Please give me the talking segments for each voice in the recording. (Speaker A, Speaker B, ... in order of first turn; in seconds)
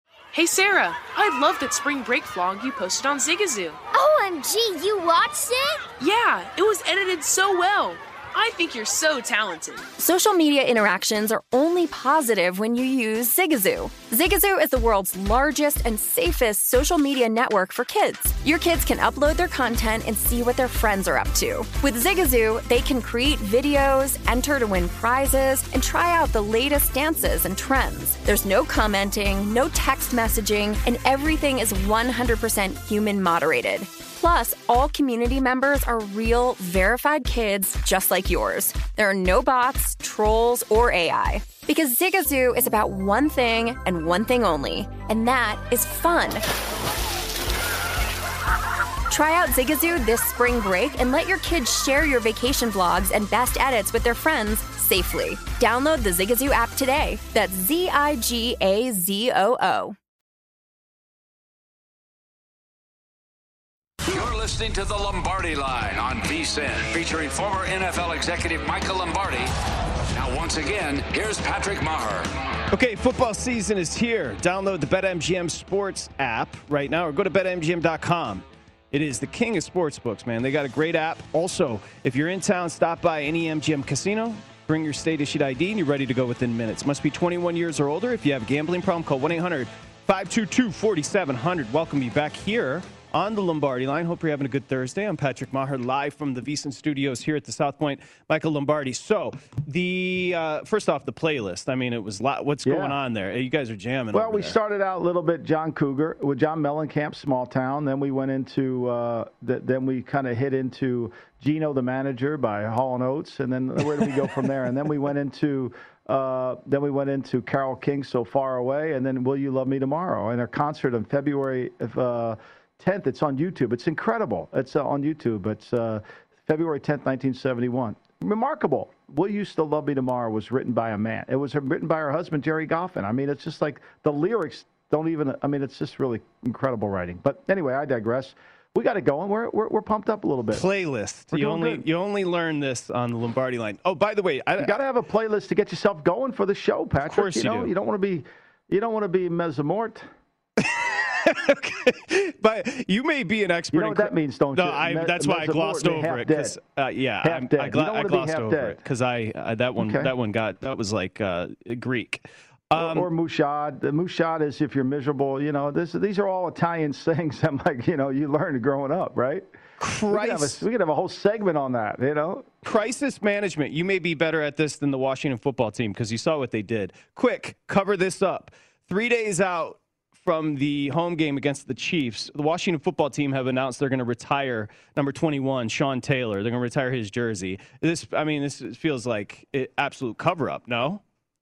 Speaker A: 0.3-3.8, 6.0-9.9
Speaker B: 3.9-5.9
Speaker C: 10.0-46.4, 49.1-59.9
Speaker D: 64.1-69.5, 70.1-72.3
Speaker E: 72.7-104.6, 140.5-144.8, 147.1-147.7, 150.6-163.1, 169.8-170.6, 172.6-191.0
Speaker F: 102.6-103.0, 104.1-140.7, 141.3-141.8, 144.6-150.1, 153.7-156.6, 157.2-158.8, 159.8-160.1, 162.7-169.5, 170.1-172.5